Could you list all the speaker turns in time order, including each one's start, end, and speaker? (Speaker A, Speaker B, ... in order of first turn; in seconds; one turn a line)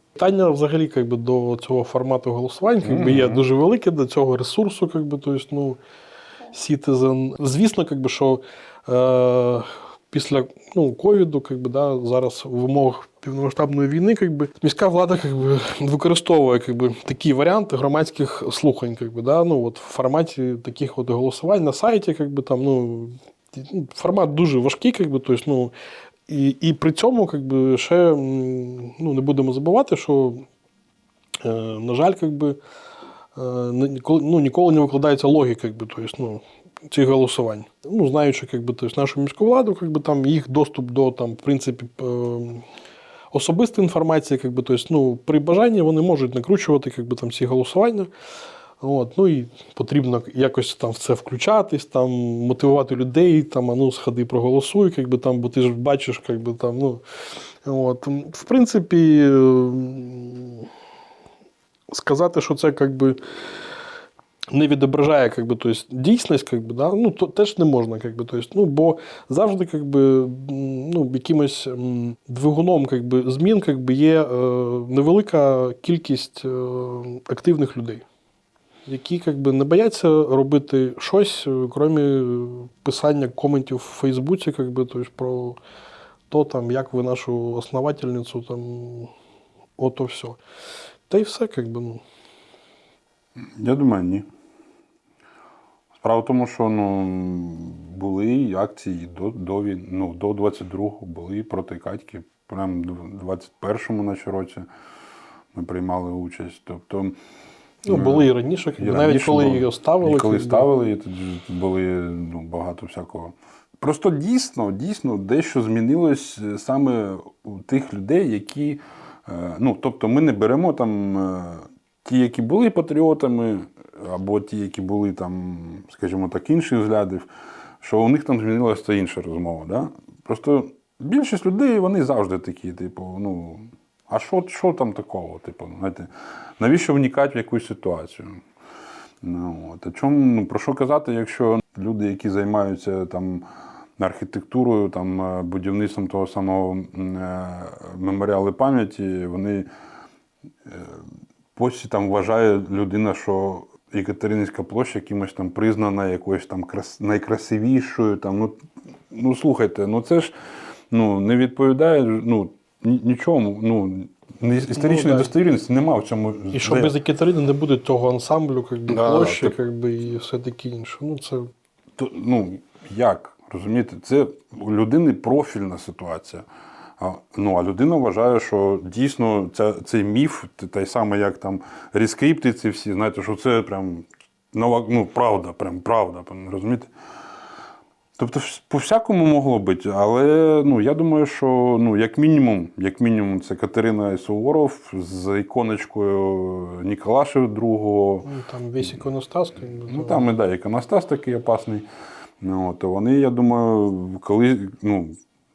Speaker A: 0.2-5.8
Speaker B: 2.8-3.4
Speaker A: 6.5-25.7
Speaker A: 26.3-30.4
Speaker A: 31.4-32.6
Speaker A: 33.4-42.6
Speaker A: 43.3-48.1
Speaker A: 48.8-57.0
Speaker A: 57.6-60.7
Speaker A: 61.9-63.2
Speaker A: 64.5-78.0
Speaker A: 78.9-85.6
Speaker A: 86.3-89.1
Speaker A: 89.8-90.4
Speaker A: 91.1-92.0
Speaker B: 93.6-94.2
Speaker B: 96.0-104.6
Speaker B: 105.5-107.1
Speaker A: 107.8-110.7
Speaker B: 107.9-127.3
Speaker B: 127.8-136.1
Speaker B: 136.6-138.4
Speaker B: 139.2-143.4
Speaker B: 144.0-149.7
Speaker B: 150.7-151.0
Speaker B: 151.5-158.6
Speaker B: 159.1-160.3
Speaker B: 160.9-167.0
Speaker A: 164.8-165.3
Speaker A: 166.5-171.5
Speaker B: 168.9-169.5
Speaker B: 172.0-176.4
Speaker B: 177.0-186.9
Speaker B: 188.2-198.3
Speaker A: 198.2-200.2
Speaker B: 199.9-201.9
Speaker B: 202.4-205.2